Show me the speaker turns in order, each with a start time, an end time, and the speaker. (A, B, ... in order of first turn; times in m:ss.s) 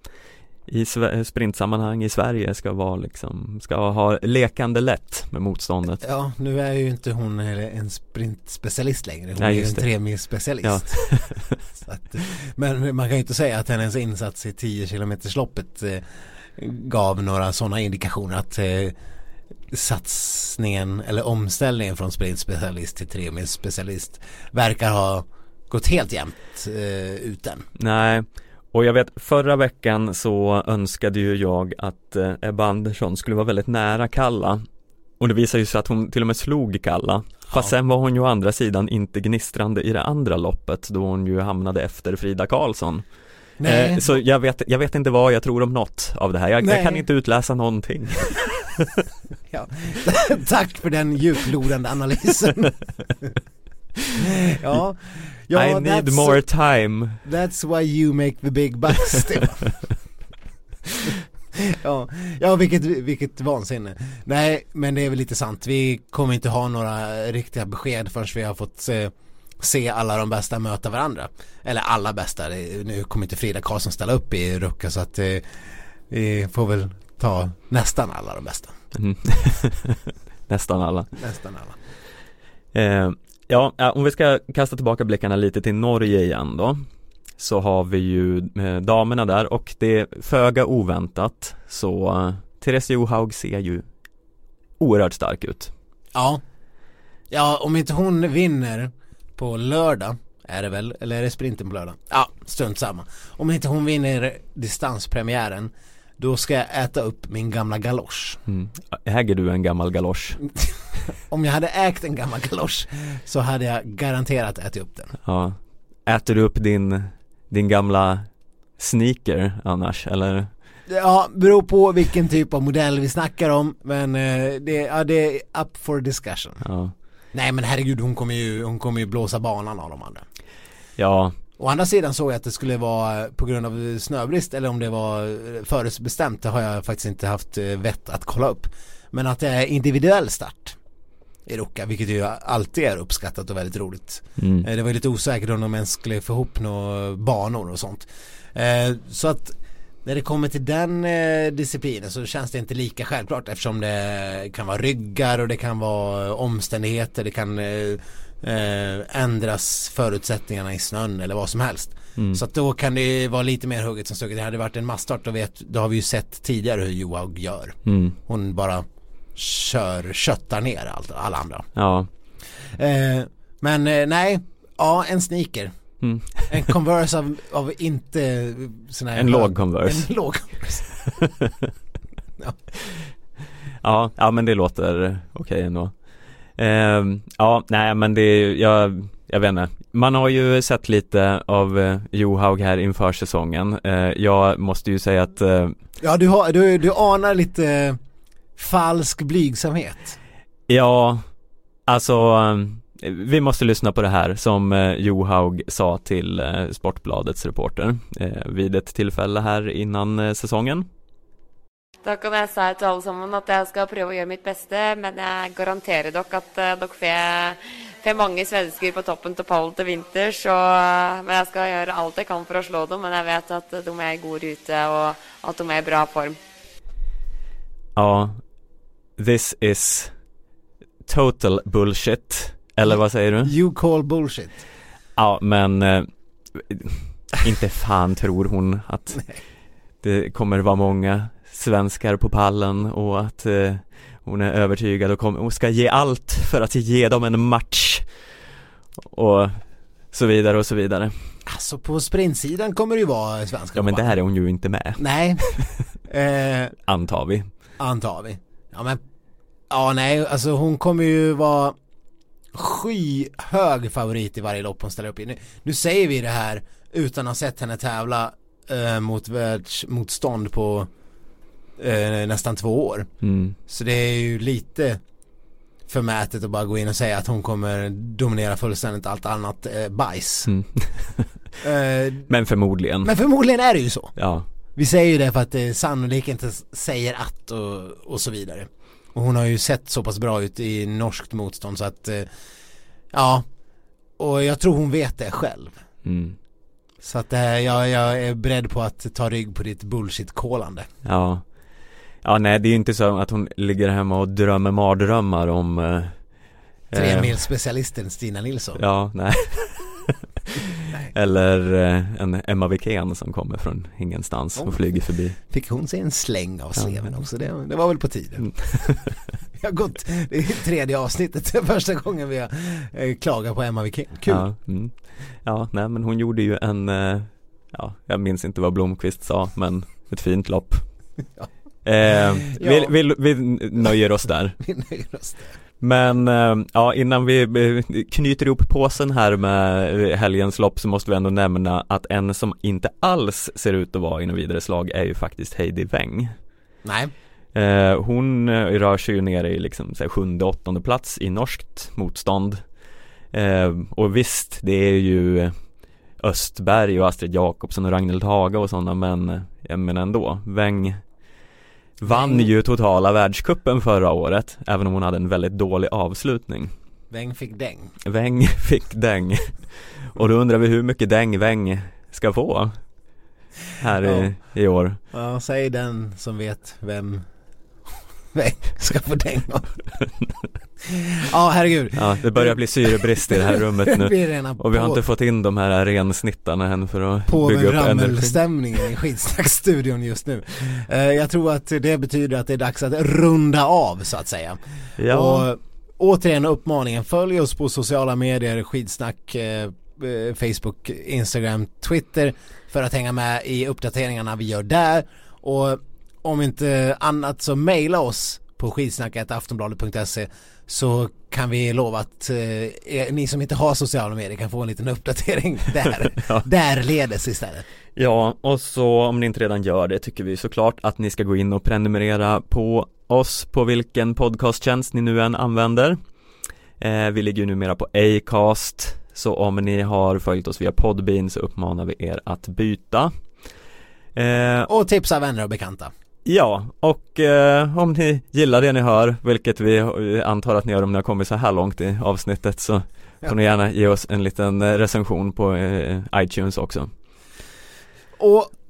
0:00.7-0:06.0 A
0:06.0-0:11.2 B
0:09.4-0:09.9 A
0:10.6-0:11.5 A
0:11.7-0:16.0 B
0:16.6-0:18.9 B
0:19.7-0:27.6 B
0:27.8-0:34.6 A
0:35.2-0:43.0 A
0:43.6-0:44.1 B
0:43.6-0:48.8 A
0:46.6-0:47.0 B
0:49.5-0:53.3 B
0:54.3-0:56.4 B
0:55.5-0:57.2 A
0:57.2-0:59.7 B
1:01.7-1:15.5 B
1:16.1-1:18.7 B
1:18.9-1:21.1 A
1:21.2-1:21.8 B
1:22.7-1:26.8 A
1:27.4-1:33.8 A
1:34.8-1:35.7 A
1:36.1-1:36.4 B
1:37.3-1:48.4 B
1:48.5-1:50.4 A
1:51.2-1:55.1 B
1:55.2-2:00.5 A
2:00.9-2:06.6 B
2:06.6-2:06.9 A
2:07.3-2:10.2 B
2:11.0-2:11.4 A
2:11.6-2:20.8 B
2:21.5-2:48.8 B
2:24.4-2:24.7 A
2:42.2-2:42.4 A
2:47.8-2:48.2 A
2:49.4-2:51.7 B
2:51.7-2:52.1 A
2:52.8-2:55.7 B
2:56.0-2:56.7 A
2:56.4-3:00.9 B
2:59.1-3:00.1 A
3:01.1-3:01.7 A
3:03.8-3:05.9 A
3:06.6-3:15.8 A
3:16.0-3:18.0 B
3:18.6-3:20.2 B
3:20.7-3:21.2 A
3:21.9-3:30.9 A
3:32.0-3:46.4 C
3:48.0-3:48.4 A
3:49.2-3:50.1 A
3:51.0-3:53.5 A
3:53.4-3:54.6 B
3:55.2-3:59.3 A
4:00.0-4:08.1 A
4:09.0-4:11.1 A
4:11.5-4:14.2 B
4:13.7-4:15.5 A
4:15.0-4:16.7 B
4:16.9-4:17.5 A
4:17.8-4:19.0 B
4:19.7-4:21.7 B
4:22.5-4:30.9 B
4:31.8-4:33.1 B
4:33.2-4:33.6 A
4:33.7-4:35.0 B
4:35.9-4:40.5 B
4:40.5-4:41.3 A
4:41.6-4:42.3 B
4:42.3-4:43.1 A
4:43.0-4:44.2 B
4:44.2-4:44.4 A
4:44.8-4:52.3 B
4:53.1-4:53.4 B
4:54.2-4:55.7 B
4:56.0-4:56.4 A
4:57.0-5:00.9 B
5:01.0-5:01.4 A
5:02.2-5:06.2 A
5:06.9-5:07.3 A
5:06.9-5:08.8 B
5:08.8-5:10.1 A
5:11.1-5:15.4 A
5:15.4-5:18.9 B
5:16.8-5:17.0 A
5:18.6-5:19.0 A
5:19.6-5:24.4 B
5:24.3-5:30.8 A
5:31.8-5:34.6 A
5:32.1-5:32.9 B
5:34.6-5:35.5 B
5:35.8-5:46.3 A
5:46.8-5:47.1 B
5:47.5-5:52.6 A
5:53.3-5:55.5 A
5:56.2-6:01.0 A
6:02.0-6:06.7 A
6:02.1-6:02.5 B
6:07.1-6:07.9 B
6:08.0-6:12.8 A
6:13.8-6:15.0 A
6:14.0-6:14.3 B
6:15.1-6:17.2 B
6:18.3-6:19.8 B
6:20.9-6:25.0 B
6:22.0-6:28.4 A
6:27.3-6:57.6 B
6:35.0-6:35.5 A
6:56.0-6:56.4 A
6:58.0-7:06.0 A
7:06.8-7:13.1 A
7:14.2-7:14.7 A
7:14.7-7:15.9 B
7:16.2-7:26.9 A
7:28.2-7:28.5 B